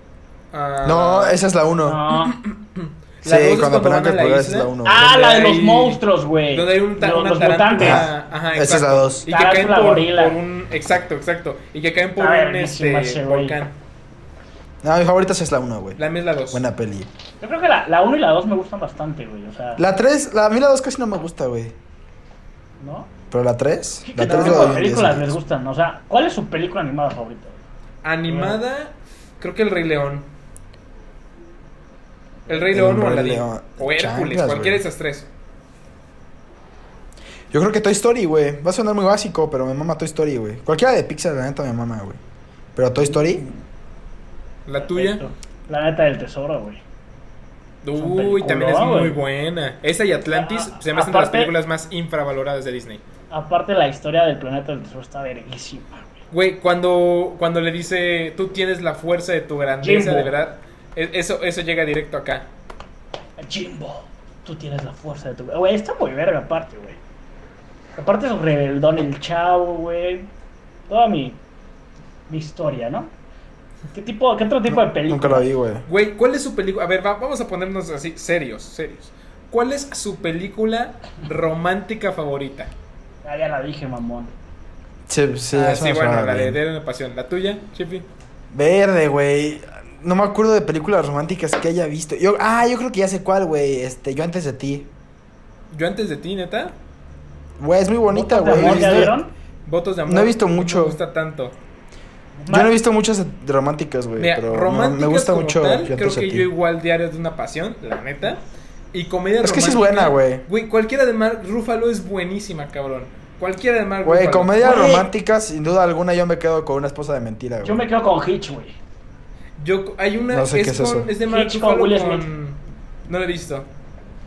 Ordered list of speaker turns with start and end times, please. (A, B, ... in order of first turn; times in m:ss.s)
0:00.5-0:01.4 A
0:00.8-0:02.0 B
0:01.8-0:02.4 C
0:02.1-0:13.8 A
0:03.2-0:05.1 B
0:04.8-0:08.1 C
0:07.8-0:09.2 B
0:09.3-0:10.4 C
0:12.2-0:13.6 C
0:14.8-0:16.0 B
0:16.0-0:16.6 A
0:16.5-0:17.1 B
0:17.4-0:19.8 C
0:19.8-0:21.8 B
0:22.8-0:23.1 C
0:23.3-0:25.4 B
0:24.0-0:27.6 C
0:24.2-0:24.8 A
0:28.0-0:30.3 A
0:28.3-0:28.6 C
0:32.5-0:35.3 A
0:32.7-0:34.8 B
0:37.5-0:42.2 B
0:42.8-0:43.5 B
0:43.0-0:43.5 C
0:44.7-0:45.2 A
0:44.8-0:46.8 C
0:47.8-0:53.0 A
0:48.0-0:49.2 C
0:50.3-0:51.5 C
0:53.3-0:56.2 C
0:56.3-1:02.5 A
0:59.8-1:00.3 C
1:03.4-1:07.0 C
1:08.0-1:10.3 C
1:10.9-1:11.4 C
1:12.3-1:13.1 C
1:13.9-1:15.5 C
1:14.7-1:15.9 B
1:15.9-1:22.7 A
1:23.2-1:24.3 C
1:25.1-1:26.6 B
1:25.5-1:28.0 A
1:28.5-1:34.9 B
1:35.7-1:36.8 A
1:37.6-1:39.2 B
1:38.1-1:39.3 C
1:38.6-1:39.1 A
1:39.6-1:41.6 A
1:40.1-1:41.0 B
1:42.4-1:42.8 C
1:42.5-1:46.5 B
1:44.2-1:48.4 A
1:48.9-1:54.8 A
1:49.4-1:50.4 B
1:54.0-1:57.9 B
1:54.6-1:55.1 C
1:57.6-1:58.8 C
1:59.6-2:03.7 A
2:00.3-2:01.1 B
2:01.3-2:02.3 C